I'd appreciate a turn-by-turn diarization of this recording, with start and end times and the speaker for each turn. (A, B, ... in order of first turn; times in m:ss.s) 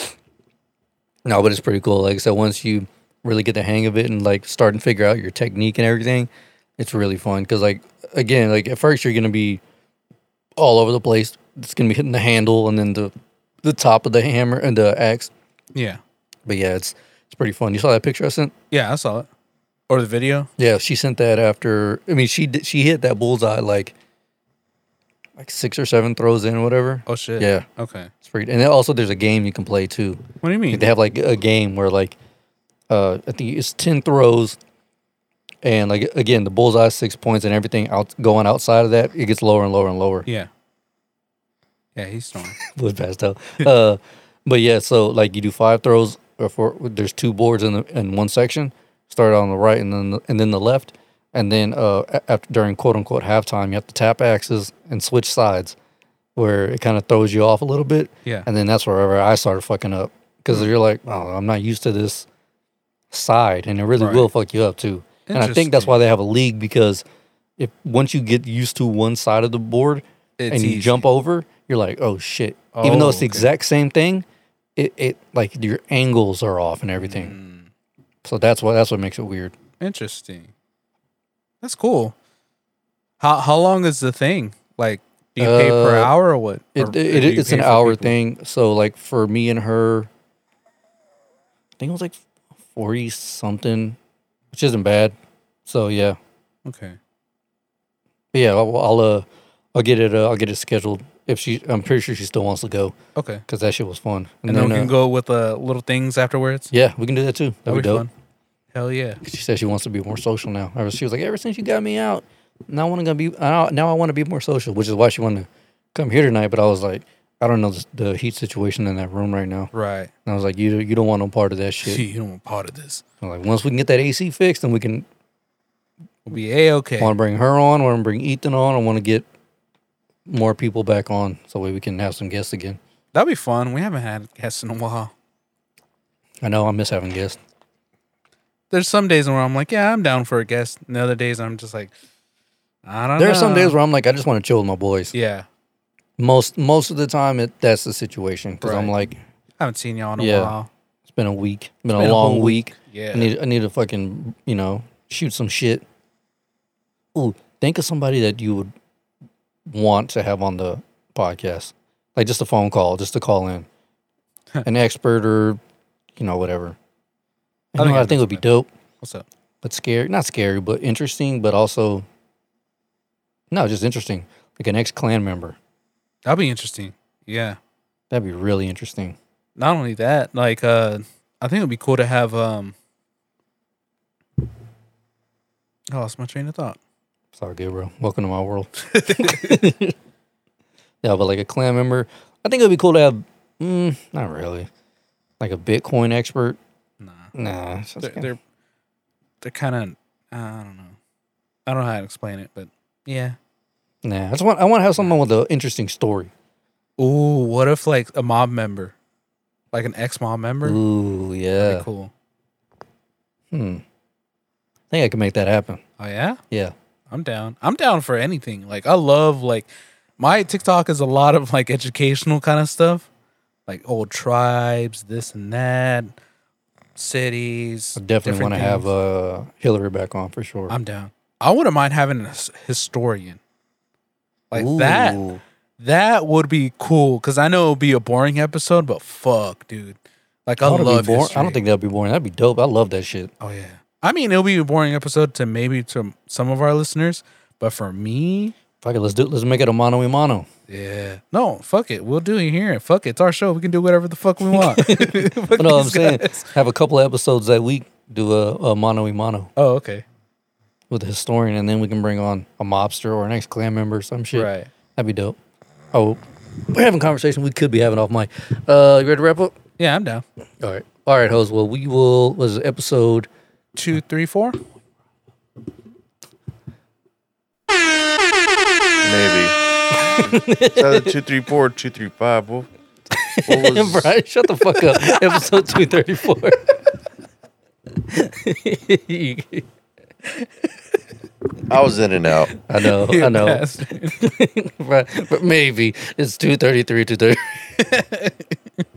0:01.3-0:09.6 A
0:10.6-0:13.1 A
0:13.6-0:15.3 A
0:15.7-0:16.0 B
0:16.4-0:18.5 A
0:18.7-0:19.3 B
0:19.9-0:20.5 B
0:20.6-0:23.9 A
0:25.4-0:27.6 A
0:27.1-0:28.1 B
0:28.2-0:32.2 A
0:30.4-0:30.9 B
0:32.9-0:34.6 A
0:35.6-0:40.3 A
0:42.0-0:42.6 B
0:42.6-0:55.8 A
0:56.4-1:02.3 A
1:03.1-1:07.0 A
1:04.0-1:04.3 B
1:05.3-1:05.9 B
1:07.6-1:14.2 A
1:10.4-1:11.0 B
1:12.8-1:13.5 B
1:14.8-1:17.4 A
1:17.0-1:17.7 B
1:18.2-1:19.5 A
1:19.8-1:20.5 B
1:21.6-1:22.1 B
1:23.2-1:28.1 B
1:25.4-1:26.1 A
1:26.8-1:30.1 A
1:31.8-1:32.2 A
1:32.7-1:34.0 A
1:34.5-1:35.1 A
1:35.7-1:36.2 A
1:36.7-1:37.0 B
1:38.3-1:43.0 A
1:43.2-1:43.4 B
1:43.5-1:44.9 A
1:44.5-1:46.7 B
1:46.7-1:48.0 A
1:47.7-1:48.1 B
1:48.7-1:49.2 B
1:49.2-1:59.7 A
1:59.7-2:00.1 B
2:00.2-2:02.0 A
2:01.8-2:03.0 B
2:03.2-2:05.0 A
2:06.2-2:07.1 B
2:07.0-2:09.2 A
2:10.2-2:12.8 A
2:13.1-2:15.1 B
2:16.4-2:17.4 A
2:18.7-2:21.9 B
2:22.8-2:23.8 B
2:23.2-2:25.1 A
2:25.1-2:25.5 B
2:26.2-2:29.2 A
2:28.6-2:28.9 B
2:29.6-2:30.7 B
2:30.2-2:30.5 A
2:31.1-2:35.8 A
2:31.9-2:33.3 B
2:37.1-2:38.7 A
2:39.7-2:43.7 A
2:44.6-2:45.6 A
2:46.2-2:46.8 A
2:47.7-2:48.7 A
2:47.8-2:48.4 B
2:49.6-2:52.0 A
2:53.5-2:55.6 A
2:56.2-2:57.6 B
2:58.1-2:59.2 A
2:59.6-3:02.8 B
3:05.9-3:06.8 B
3:07.4-3:10.0 A
3:08.9-3:09.7 B
3:11.0-3:14.7 A
3:15.4-3:16.6 A
3:17.0-3:17.3 B
3:17.3-3:18.3 A
3:18.0-3:18.4 B
3:19.4-3:21.0 B
3:21.7-3:23.4 B
3:24.0-3:26.3 A
3:27.0-3:28.9 B
3:29.7-3:30.8 B
3:30.6-3:31.9 A
3:31.6-3:32.1 B
3:33.5-3:33.8 A
3:34.9-3:35.8 A
3:36.0-3:36.4 B
3:37.1-3:43.0 B
3:43.7-3:46.1 B
3:47.0-3:48.9 B
3:48.0-3:50.8 A
3:50.7-3:53.4 B
3:54.5-3:55.2 B
3:54.5-3:55.4 A
3:55.8-4:01.6 B
4:00.6-4:03.3 A
4:03.4-4:08.6 B
4:08.8-4:10.5 A
4:10.7-4:16.5 B
4:14.5-4:19.5 A
4:19.6-4:20.0 B
4:20.9-4:25.4 A
4:24.3-4:24.7 B
4:25.9-4:29.6 A
4:29.8-4:30.2 B
4:30.6-4:33.3 A
4:33.8-4:34.6 B
4:39.0-4:42.7 C
4:40.0-4:41.1 A
4:43.1-4:46.8 A
4:43.5-4:44.1 C
4:44.8-4:45.3 B
4:48.1-4:49.7 A
4:51.7-4:52.5 C
4:52.6-4:57.7 A
4:52.8-4:54.3 B
4:57.8-4:58.6 B